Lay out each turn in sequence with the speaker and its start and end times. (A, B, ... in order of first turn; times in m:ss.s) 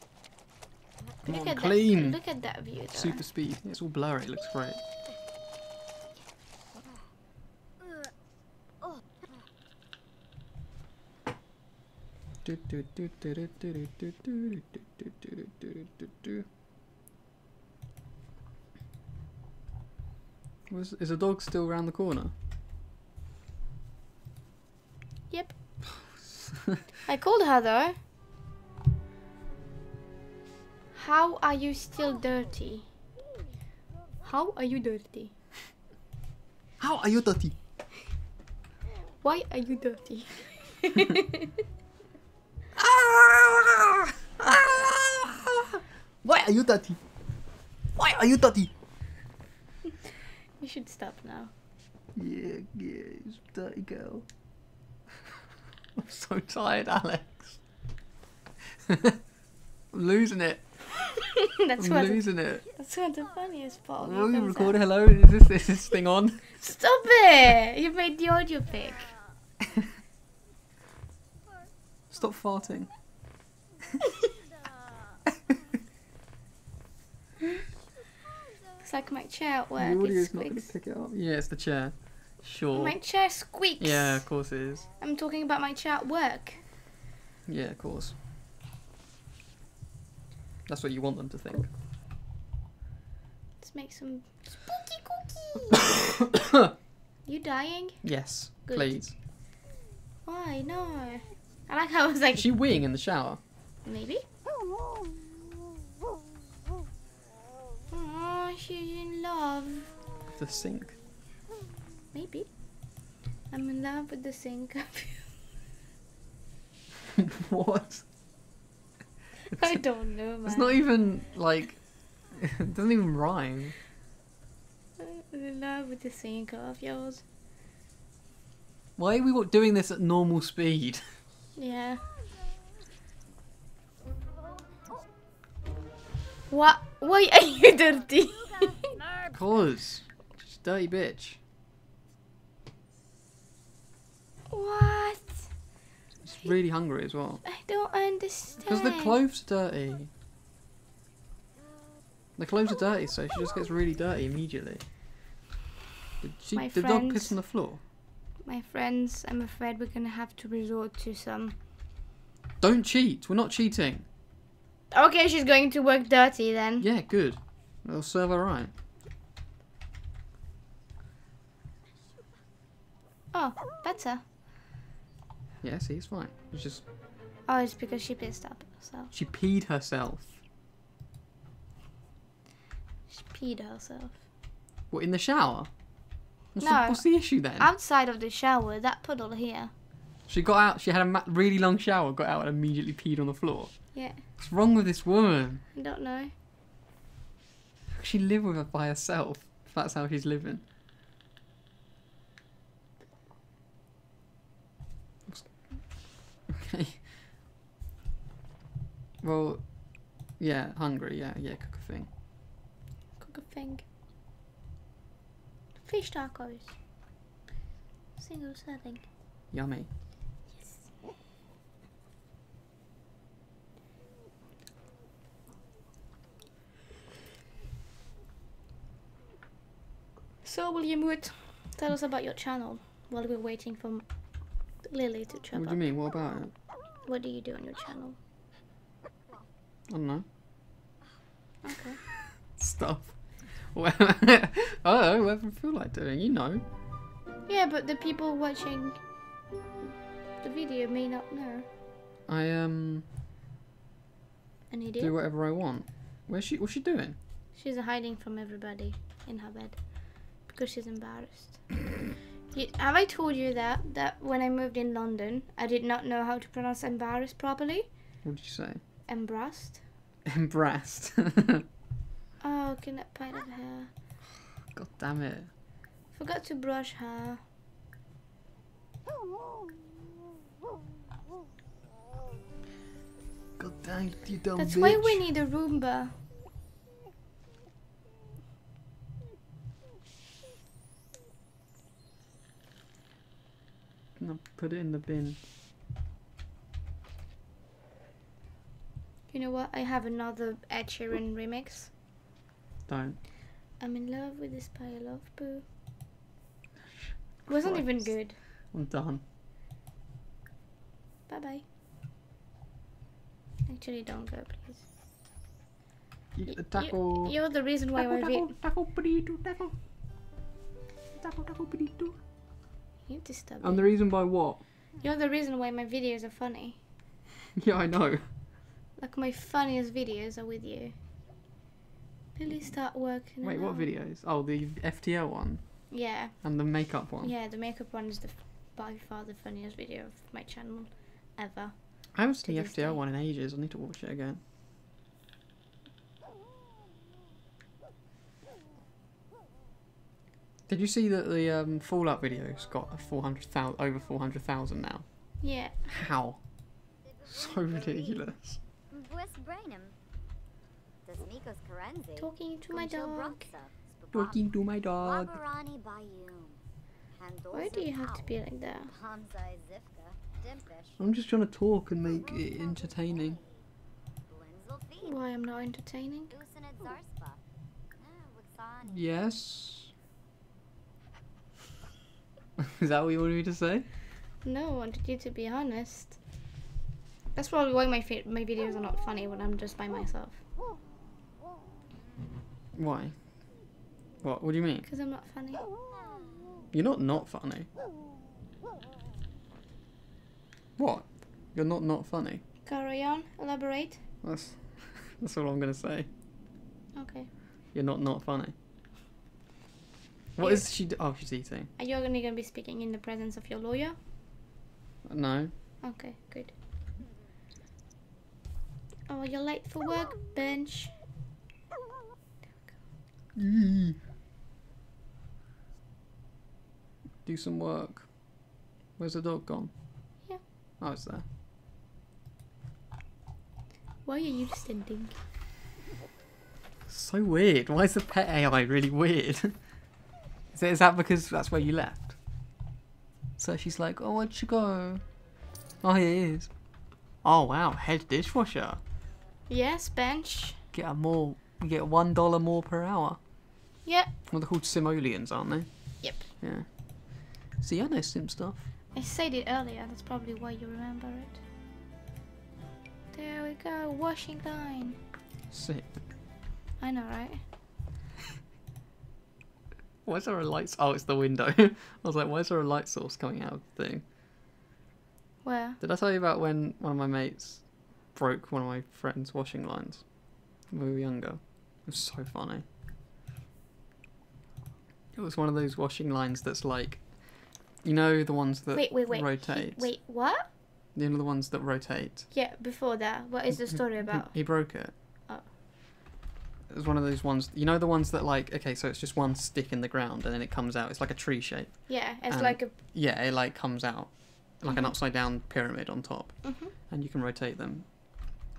0:01.2-0:02.2 A
0:01.3-0:03.2 B
0:02.9-0:04.8 A
0:12.4-0:16.4 A
0:20.7-0:22.3 A
0:25.3-0:25.6 B
0:27.0-0:28.0 B
0:30.9-0:32.9 B
0:34.2-0:35.3 B
0:36.8-0:37.5 A
0:39.2-0:41.5 B
0:42.8-0:47.0 A
0:48.0-0:48.7 A
0:50.6-0:51.5 B
0:52.1-0:54.2 A
0:56.0-0:57.6 A
0:58.9-0:59.2 A
0:59.9-1:00.6 A
1:01.6-1:04.8 B
1:01.8-1:02.6 A
1:04.0-1:06.6 A
1:06.6-1:09.1 B
1:12.1-1:12.9 A
1:18.8-1:20.7 B
1:19.8-1:23.0 A
1:22.7-1:24.3 B
1:23.8-1:24.9 A
1:25.0-1:26.6 B
1:27.5-1:28.2 A
1:30.7-1:31.7 A
1:33.6-1:35.8 B
1:37.2-1:39.0 B
1:38.0-1:39.1 A
1:40.2-1:42.5 B
1:42.3-1:43.4 A
1:43.8-1:44.2 B
1:47.9-1:49.9 B
1:50.4-1:51.0 A
1:52.1-1:52.5 B
1:53.5-1:55.3 B
1:57.1-1:58.0 A
1:59.5-2:00.8 B
2:00.4-2:03.7 A
2:05.0-2:07.2 B
2:09.0-2:11.0 A
2:11.5-2:12.1 B
2:16.5-2:19.0 B
2:19.3-2:21.4 A
2:24.5-2:25.5 B
2:26.2-2:27.4 A
2:27.4-2:29.2 B
2:28.6-2:30.1 A
2:32.4-2:34.8 A
2:36.2-2:37.8 A
2:36.5-2:37.4 B
2:38.4-2:41.6 B
2:42.6-2:44.0 A
2:44.9-2:46.8 B
2:46.8-2:48.7 A
2:53.3-2:54.2 B
2:55.6-2:56.8 A
2:57.4-2:59.1 B
2:59.1-3:00.4 A
3:03.1-3:04.2 B
3:04.9-3:05.7 A
3:06.5-3:07.7 A
3:06.6-3:09.7 B
3:10.3-3:15.6 A
3:13.9-3:14.2 B
3:15.7-3:16.3 B
3:17.9-3:20.6 A
3:25.3-3:27.0 A
3:29.2-3:32.1 A
3:33.2-3:33.8 B
3:35.8-3:36.8 B
3:38.2-3:39.0 B
3:39.5-3:39.9 A
3:40.5-3:40.8 B
3:50.4-3:54.0 B
3:54.8-3:55.8 B
3:55.5-3:56.5 A
3:57.0-3:58.2 B
3:59.9-4:00.2 A
4:01.6-4:02.0 B
4:02.5-4:06.6 A
4:07.5-4:09.0 B
4:10.4-4:11.6 B
4:12.3-4:13.0 A
4:14.7-4:15.1 B
4:15.0-4:17.2 A
4:17.5-4:21.8 B
4:22.5-4:27.9 B
4:28.2-4:28.8 A
4:29.1-4:29.8 B
4:30.2-4:31.6 A
4:32.4-4:33.9 B
4:34.7-4:35.5 A
4:36.1-4:37.4 B
4:43.6-4:45.2 A
4:44.6-4:46.2 B
4:54.2-4:55.4 A
4:59.3-5:01.9 B
5:02.9-5:03.2 A
5:03.8-5:05.6 B
5:07.4-5:09.2 A
5:07.4-5:08.4 B
5:11.3-5:11.6 B
5:13.6-5:14.8 B
5:16.3-5:19.7 A
5:16.4-5:18.6 B
5:21.2-5:22.2 A
5:23.0-5:23.9 B
5:23.6-5:24.6 A
5:25.0-5:26.8 B
5:27.6-5:28.2 A
5:29.0-5:30.9 B
5:32.4-5:33.9 B
5:33.2-5:37.3 A
5:35.9-5:43.0 B
5:42.1-5:44.4 A
5:50.7-5:55.0 A
5:55.4-5:55.9 B
5:55.9-5:56.4 A
5:57.2-5:58.6 A
5:58.9-5:59.9 C
6:01.1-6:04.3 C
6:02.2-6:03.5 B
6:04.1-6:05.4 A
6:05.0-6:06.6 C
6:07.1-6:08.3 C
6:07.5-6:08.9 B
6:08.9-6:11.0 C
6:11.0-6:13.4 A
6:12.3-6:13.6 C
6:14.3-6:15.2 C
6:15.0-6:16.3 B
6:16.3-6:17.4 C
6:18.0-6:19.0 C
6:18.8-6:19.9 A
6:22.6-6:23.8 A
6:24.4-6:26.2 B
6:27.3-6:30.4 B
6:32.7-6:33.2 A
6:34.2-6:34.9 A
6:34.8-6:35.7 B
6:36.0-6:36.6 C
6:36.7-6:37.7 A
6:40.8-6:42.4 A
6:42.6-6:44.0 B
6:44.2-6:46.1 A
6:46.9-6:47.3 B
6:47.7-6:48.5 A
6:50.4-6:51.7 A
6:50.4-6:50.7 B
6:51.8-6:54.0 B
6:55.0-6:55.5 A
6:55.8-6:56.5 B
6:59.1-7:01.0 B
7:03.3-7:04.0 A
7:07.2-7:09.7 A
7:10.8-7:11.2 A
7:14.0-7:15.2 B
7:16.9-7:19.6 A
7:20.5-7:22.2 A
7:23.4-7:25.0 A
7:25.8-7:26.7 A
7:27.2-7:28.8 A
7:29.5-7:30.6 B
7:30.7-7:33.2 A
7:33.8-7:34.1 B
7:34.3-7:38.6 A
7:36.0-7:36.2 B
7:38.9-7:41.4 B
7:43.1-7:45.0 B
7:45.5-7:46.0 A
7:46.8-7:47.4 B
7:50.0-7:54.0 A
7:55.4-7:55.8 B
7:55.8-8:02.6 A
8:05.1-8:10.0 A
8:08.7-8:10.5 B
8:10.9-8:12.3 A
8:12.3-8:14.7 B
8:13.5-8:14.9 A
8:16.7-8:28.3 A
8:21.9-8:22.7 B
8:24.6-8:24.9 B
8:26.4-8:26.7 B